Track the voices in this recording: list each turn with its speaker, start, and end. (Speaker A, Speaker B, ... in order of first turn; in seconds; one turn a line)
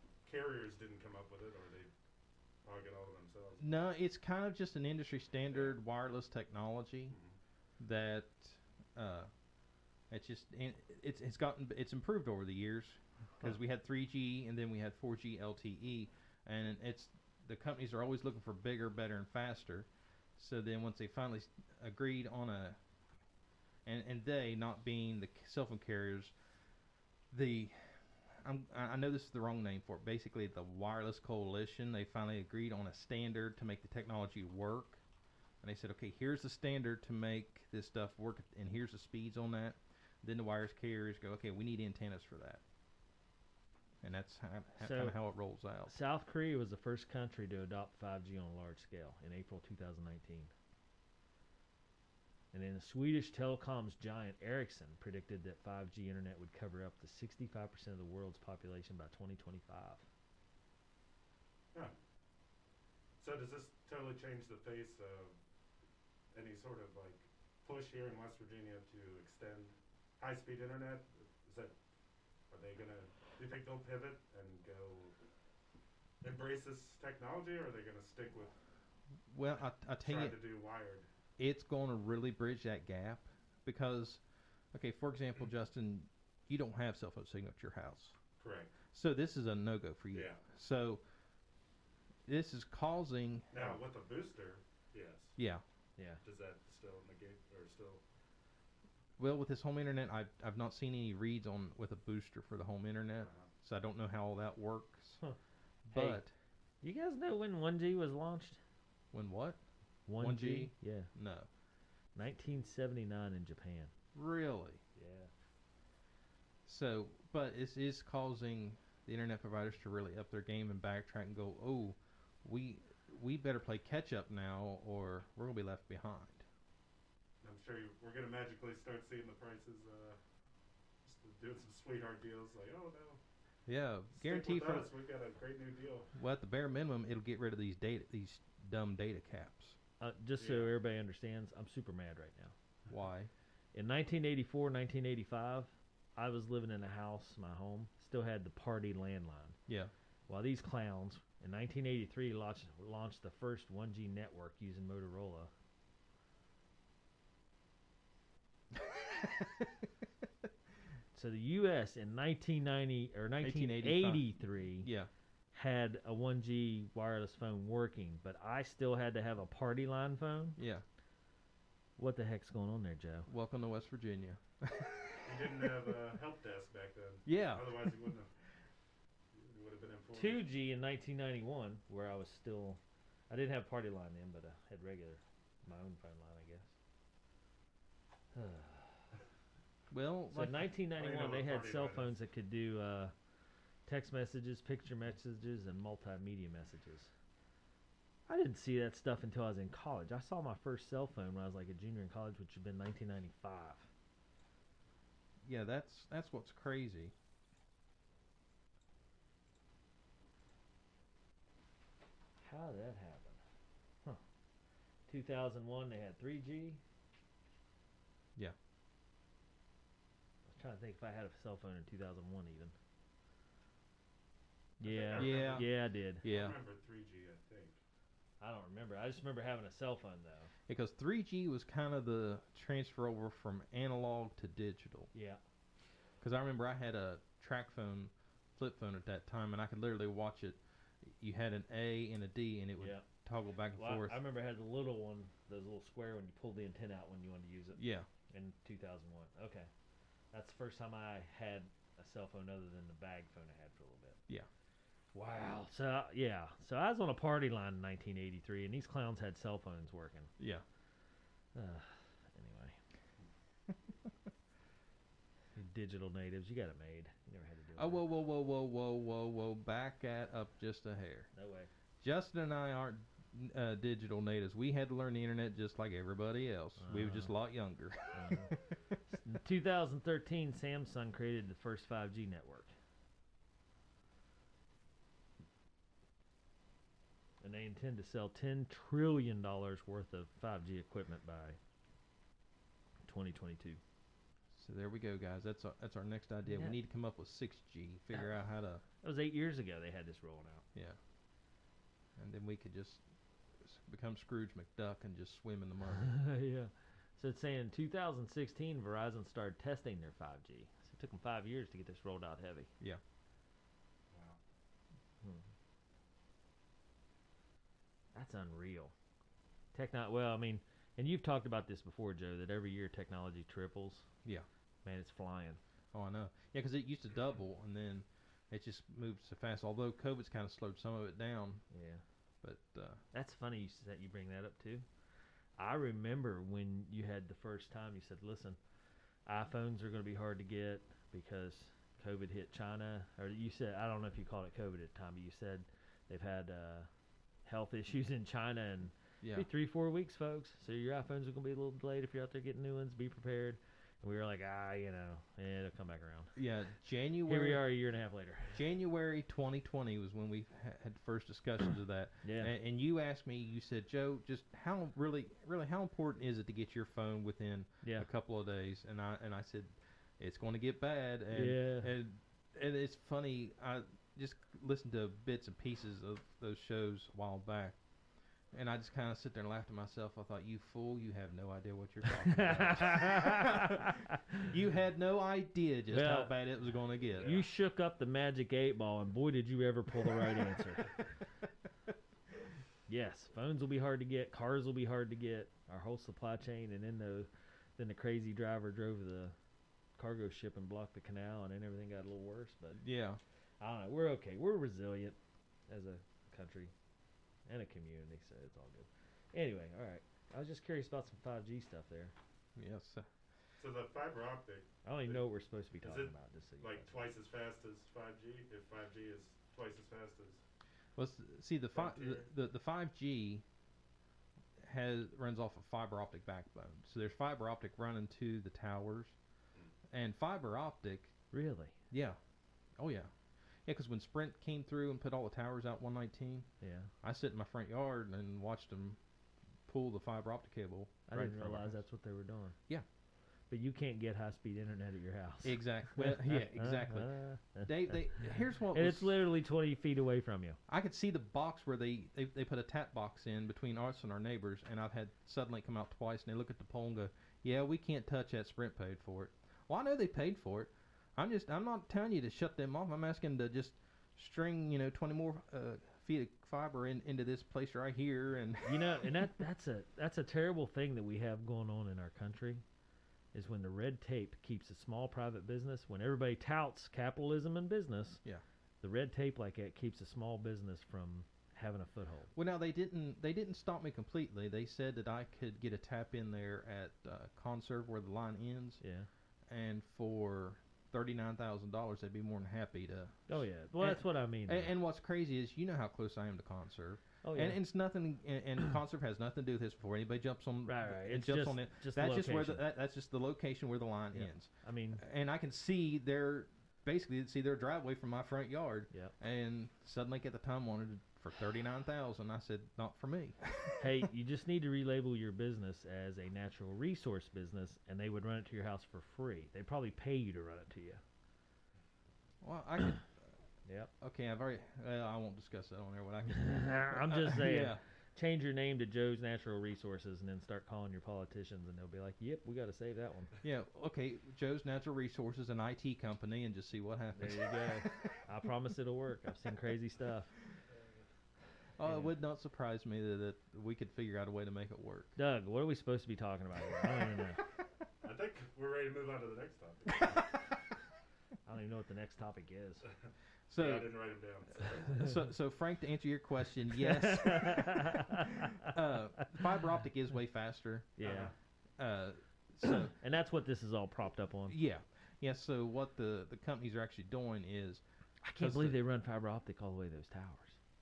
Speaker A: 0.2-1.9
Speaker A: 2.6-3.7
Speaker B: 3.6-7.2
Speaker A: 7.1-7.3
Speaker B: 7.8-9.3
Speaker B: 10.1-22.8
Speaker B: 23.9-26.3
Speaker B: 27.3-35.0
Speaker B: 35.6-42.6
Speaker B: 44.0-45.9
Speaker C: 44.8-45.2
Speaker C: 45.9-50.5
Speaker C: 52.5-60.0
Speaker A: 63.2-65.3
Speaker A: 66.3-71.7
Speaker A: 72.5-75.2
Speaker A: 76.2-78.5
Speaker B: 79.3-80.4
Speaker A: 80.0-81.1
Speaker B: 81.4-84.2
Speaker B: 84.7-88.2
Speaker A: 88.4-88.7
Speaker B: 88.9-91.0
Speaker A: 90.1-90.4
Speaker B: 92.3-93.7
Speaker A: 93.5-95.3
Speaker B: 95.4-95.6
Speaker A: 96.2-98.0
Speaker B: 99.2-105.2
Speaker A: 103.2-103.5
Speaker B: 105.9-106.3
Speaker C: 105.9-106.2
Speaker C: 106.8-108.6
Speaker B: 109.1-109.6
Speaker C: 110.1-111.1
Speaker B: 110.2-111.5
Speaker C: 112.2-113.9
Speaker B: 114.2-114.8
Speaker C: 115.0-115.3
Speaker B: 116.7-126.5
Speaker A: 127.4-130.2
Speaker A: 131.1-133.2
Speaker B: 133.7-134.9
Speaker A: 134.2-136.1
Speaker B: 136.2-139.8
Speaker C: 140.0-142.6
Speaker A: 140.4-140.8
Speaker B: 142.9-143.3
Speaker C: 143.7-149.6
Speaker C: 150.3-155.5
Speaker B: 158.8-159.7
Speaker C: 161.1-164.9
Speaker B: 163.4-165.1
Speaker C: 165.5-170.6
Speaker B: 170.6-170.8
Speaker C: 172.0-173.3
Speaker B: 173.3-175.7
Speaker A: 175.2-178.3
Speaker B: 177.3-178.0
Speaker A: 179.3-180.5
Speaker C: 180.1-186.7
Speaker C: 188.3-189.0
Speaker B: 189.9-190.7
Speaker C: 190.3-193.1
Speaker A: 191.0-192.1
Speaker C: 193.9-197.1
Speaker C: 198.3-203.9
Speaker B: 205.4-207.1
Speaker C: 212.4-213.4
Speaker C: 215.1-216.8
Speaker C: 220.5-222.7
Speaker C: 224.8-226.2
Speaker A: 224.8-225.7
Speaker B: 225.1-225.7
Speaker B: 226.2-226.6
Speaker A: 226.2-227.8
Speaker C: 228.4-230.5
Speaker B: 230.7-235.1
Speaker C: 235.1-235.4
Speaker B: 236.2-240.6
Speaker B: 241.2-244.2
Speaker C: 242.8-243.1
Speaker C: 243.7-249.7
Speaker B: 247.8-248.1
Speaker C: 250.3-254.2
Speaker C: 255.1-260.3
Speaker B: 260.4-260.6
Speaker C: 261.6-262.8
Speaker C: 265.6-268.0
Speaker B: 267.8-271.3
Speaker C: 271.3-271.7
Speaker B: 272.0-278.9
Speaker C: 276.8-277.3
Speaker C: 278.1-278.5
Speaker C: 279.1-282.7
Speaker C: 287.4-291.6
Speaker C: 293.1-293.8
Speaker B: 294.6-298.8
Speaker C: 296.5-296.8
Speaker C: 299.0-300.6
Speaker B: 302.2-303.0
Speaker B: 303.6-306.1
Speaker C: 306.0-312.7
Speaker A: 314.1-314.4
Speaker C: 318.1-318.9
Speaker C: 319.7-324.1
Speaker C: 324.9-325.6
Speaker B: 325.9-331.6
Speaker C: 331.7-332.0
Speaker B: 332.4-333.0
Speaker C: 333.1-334.9
Speaker C: 335.6-338.6
Speaker C: 339.3-346.9
Speaker C: 347.4-356.3
Speaker B: 349.2-349.5
Speaker B: 356.4-357.7
Speaker C: 357.3-358.6
Speaker B: 358.5-377.8
Speaker C: 362.2-362.5
Speaker C: 371.3-371.9
Speaker B: 378.5-387.4
Speaker C: 382.1-384.2
Speaker C: 385.9-386.3
Speaker A: 387.2-387.4
Speaker C: 387.2-390.9
Speaker C: 392.9-399.4
Speaker C: 400.0-402.8
Speaker B: 402.8-403.2
Speaker C: 403.6-405.2
Speaker C: 405.7-406.7
Speaker C: 407.5-412.1
Speaker B: 412.6-413.1
Speaker A: 413.6-415.2
Speaker C: 414.9-417.0
Speaker A: 415.8-420.4
Speaker B: 421.0-423.4
Speaker A: 421.7-422.3
Speaker B: 424.6-429.1
Speaker B: 429.9-431.1
Speaker C: 431.3-431.8
Speaker B: 431.9-432.2
Speaker B: 432.8-433.1
Speaker B: 433.7-436.5
Speaker C: 436.6-436.9
Speaker B: 437.0-439.0
Speaker B: 439.7-441.8
Speaker C: 441.1-442.6
Speaker C: 443.5-450.6
Speaker B: 445.4-449.1
Speaker B: 450.7-469.1
Speaker C: 468.6-472.6
Speaker C: 473.3-478.2
Speaker C: 478.8-482.3
Speaker B: 482.4-488.8
Speaker C: 488.8-489.1
Speaker B: 489.5-513.8
Speaker C: 493.3-494.7
Speaker C: 497.2-497.6
Speaker C: 500.7-502.6
Speaker C: 504.1-505.0
Speaker C: 513.8-521.0
Speaker B: 522.4-523.1
Speaker C: 523.6-523.9
Speaker B: 524.0-527.8
Speaker C: 526.3-533.3
Speaker B: 533.4-538.2
Speaker C: 537.2-540.3
Speaker B: 541.8-545.1
Speaker C: 541.8-542.1
Speaker C: 545.2-547.4
Speaker A: 548.0-550.4
Speaker C: 551.5-552.9
Speaker B: 553.5-553.9
Speaker A: 553.6-555.1
Speaker B: 554.9-560.9
Speaker C: 556.8-558.7
Speaker C: 561.0-561.3
Speaker A: 561.0-561.3
Speaker B: 561.8-562.9
Speaker C: 563.0-564.6
Speaker B: 564.5-567.8
Speaker C: 568.2-570.6
Speaker B: 568.4-568.8